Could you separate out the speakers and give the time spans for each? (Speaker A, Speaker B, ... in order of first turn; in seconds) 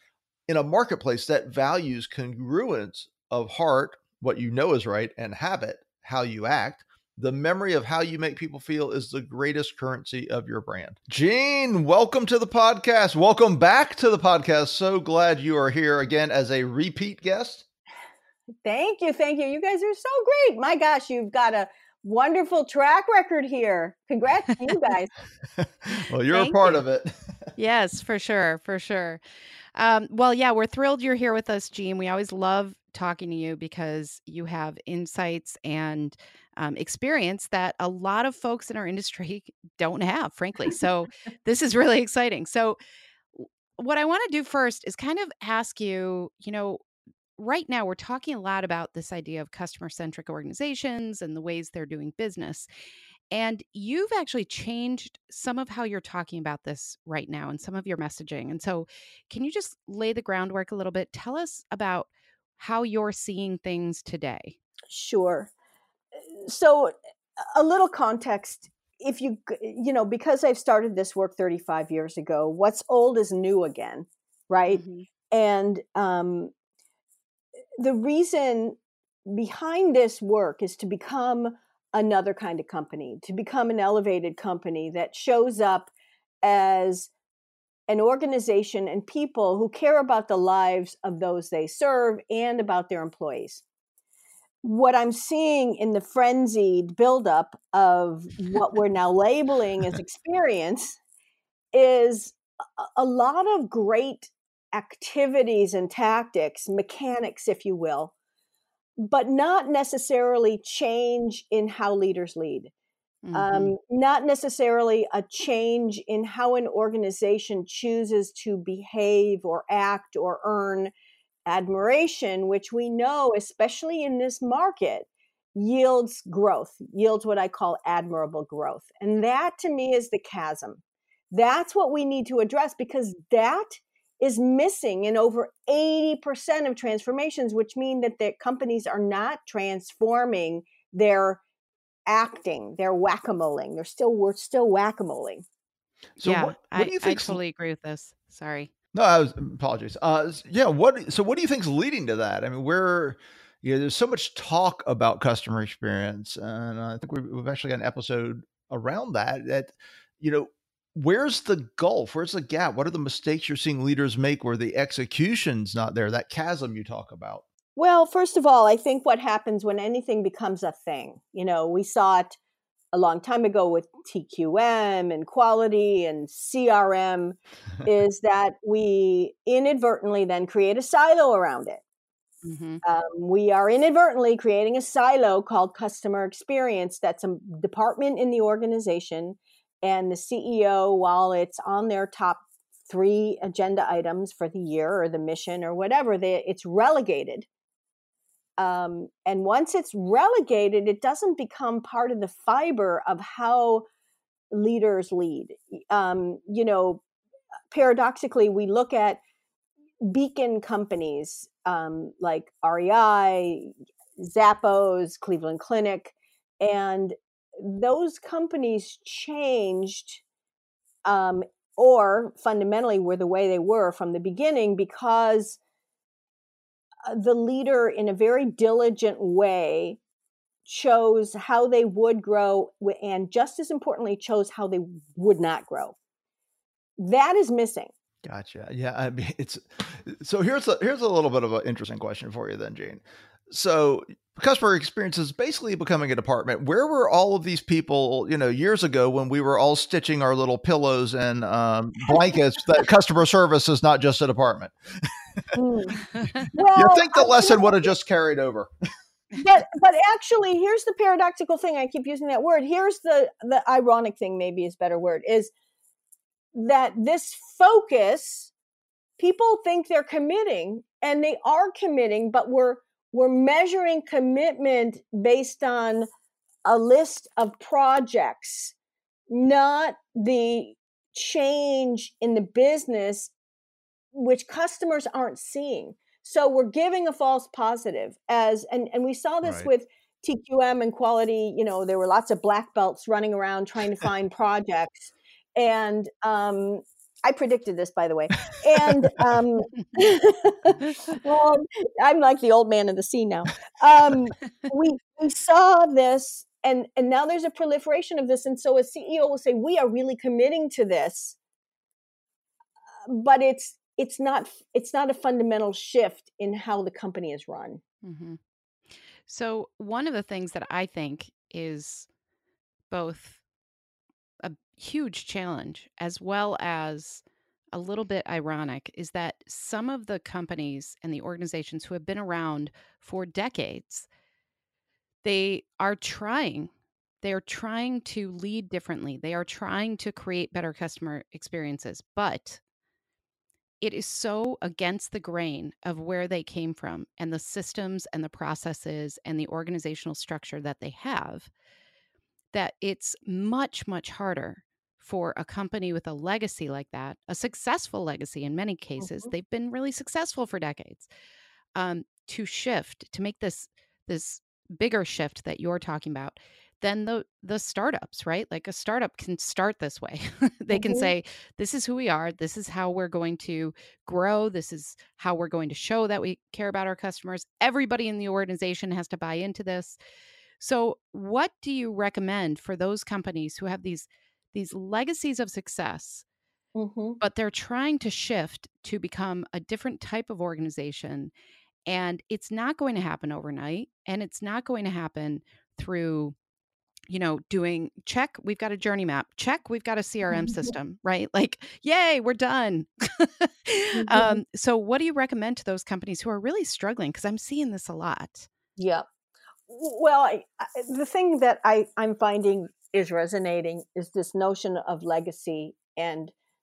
Speaker A: 0.5-17.6, 25.6-27.5, 146.2-147.4, 148.9-167.4, 238.2-255.4, 256.8-258.7
Speaker B: 18.6-25.1, 64.9-65.5, 66.4-66.9, 67.5-76.5, 77.8-85.9, 86.4-87.1, 87.9-93.6, 94.6-101.0, 101.7-108.1, 109.0-112.7, 113.3-120.9, 121.5-141.4, 142.1-145.4, 167.8-172.4, 172.9-181.8, 182.8-197.5, 198.6-203.9, 204.5-207.0, 207.7-209.2, 210.0-220.2, 221.1-225.6, 227.1-230.0, 230.7-235.9, 237.0-237.9, 255.5-257.9, 259.4-265.5, 266.5-268.5, 269.2-276.1, 276.6-278.7, 279.3-283.3, 284.1-311.4, 313.1-317.8, 359.0-359.3, 370.7-371.1, 386.8-387.2, 404.0-404.4, 408.8-409.1, 409.7-416.3
Speaker C: 26.3-26.8, 27.6-29.2, 29.8-42.8, 43.4-46.8, 47.4-52.7, 53.3-64.6, 74.7-75.1, 113.2-113.7, 146.2-148.7, 182.4-182.8, 318.0-318.4, 319.3-322.1, 322.9-323.4, 324.4-334.1, 335.2-336.7, 337.2-342.6, 343.8-351.5, 352.5-361.1, 361.8-380.0, 380.6-386.2, 387.2-391.3, 391.9-396.4, 397.1-408.5